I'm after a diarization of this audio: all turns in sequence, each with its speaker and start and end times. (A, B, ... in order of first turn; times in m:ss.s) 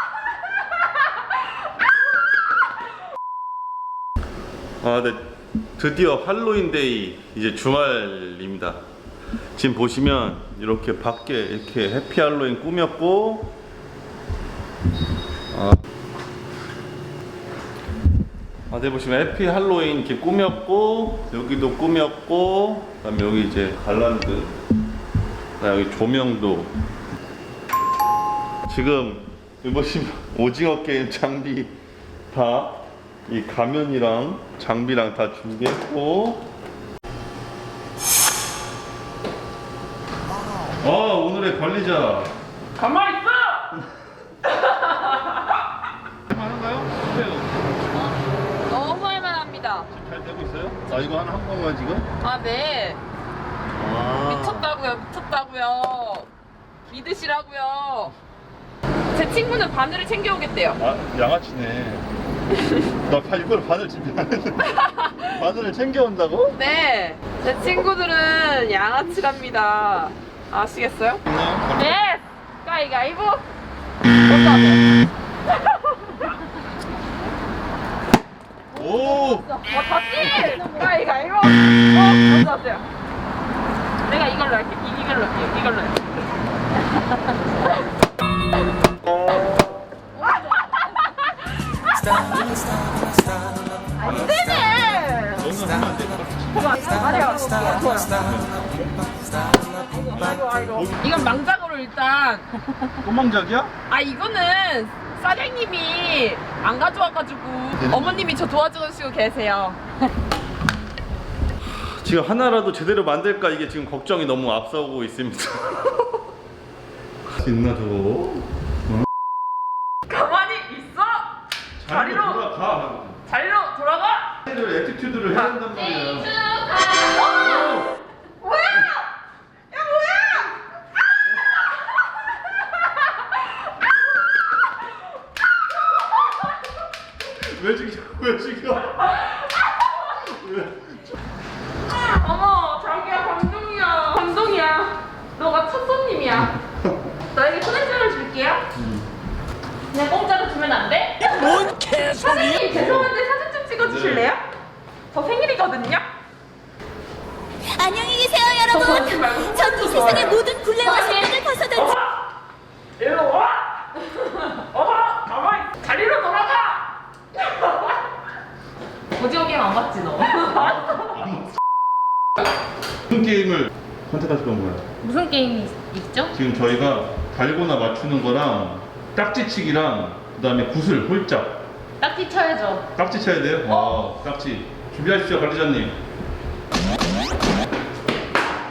0:04.8-0:08.8 A
0:09.6-0:13.6 A
0:15.5-0:15.8 A
0:18.7-0:24.6 A
0:25.6-0:26.7 A
0:28.7-0:31.7 A
0:32.3-0:36.5 A
0:40.8-0:42.3 A
0:42.8-0:43.6 B
0:44.5-0:45.4 B
0:46.3-0:47.6 A
0:48.6-0:49.9 B
0:49.9-0:52.0 A
0:52.2-0:53.0 B
0:53.8-0:54.7 A
0:54.2-0:56.3 B
0:56.9-0:58.1 B
0:59.1-1:00.8 B
1:00.8-1:02.0 A
1:03.0-1:06.6 A
1:04.6-1:05.3 B
1:06.6-1:13.4 B
1:11.3-1:12.0 A
1:14.3-1:14.8 B
1:15.6-1:16.3 B
1:18.7-1:19.5 A
1:19.6-1:22.8 B
1:24.0-1:26.0 B
1:34.0-1:34.3 C
1:34.0-1:35.4 B
1:35.4-1:36.9 A
1:36.5-1:38.2 B
1:38.2-1:38.6 A
1:39.9-1:42.5 B
1:40.7-1:41.1 A
1:43.0-1:43.7 A
1:43.9-1:49.8 B
1:47.8-1:48.3 A
1:51.8-1:55.9 A
1:57.2-1:59.1 A
2:00.1-2:01.3 B
2:01.8-2:03.2 A
2:01.8-2:02.4 B
2:03.3-2:04.4 B
2:04.4-2:06.3 A
2:05.3-2:07.7 B
2:05.9-2:07.0 C
2:07.3-2:07.9 A
2:08.4-2:08.9 B
2:17.2-2:19.1 A
2:20.2-2:21.0 A
2:21.8-2:26.6 B
2:27.3-2:28.6 B
2:28.7-2:29.1 A
2:29.9-2:34.4 B
2:32.6-2:33.2 A
2:33.8-2:34.3 A
2:35.1-2:36.0 B
2:37.7-2:41.9 D
2:38.6-2:42.0 B
2:43.0-2:46.9 B
2:49.2-2:49.6 C
2:49.2-2:51.1 B
2:50.5-2:51.6 A
2:53.0-2:54.8 A
2:55.0-2:56.3 C
2:56.3-3:01.6 A
3:02.0-3:02.8 C
3:03.0-3:06.0 A
3:03.6-3:04.0 B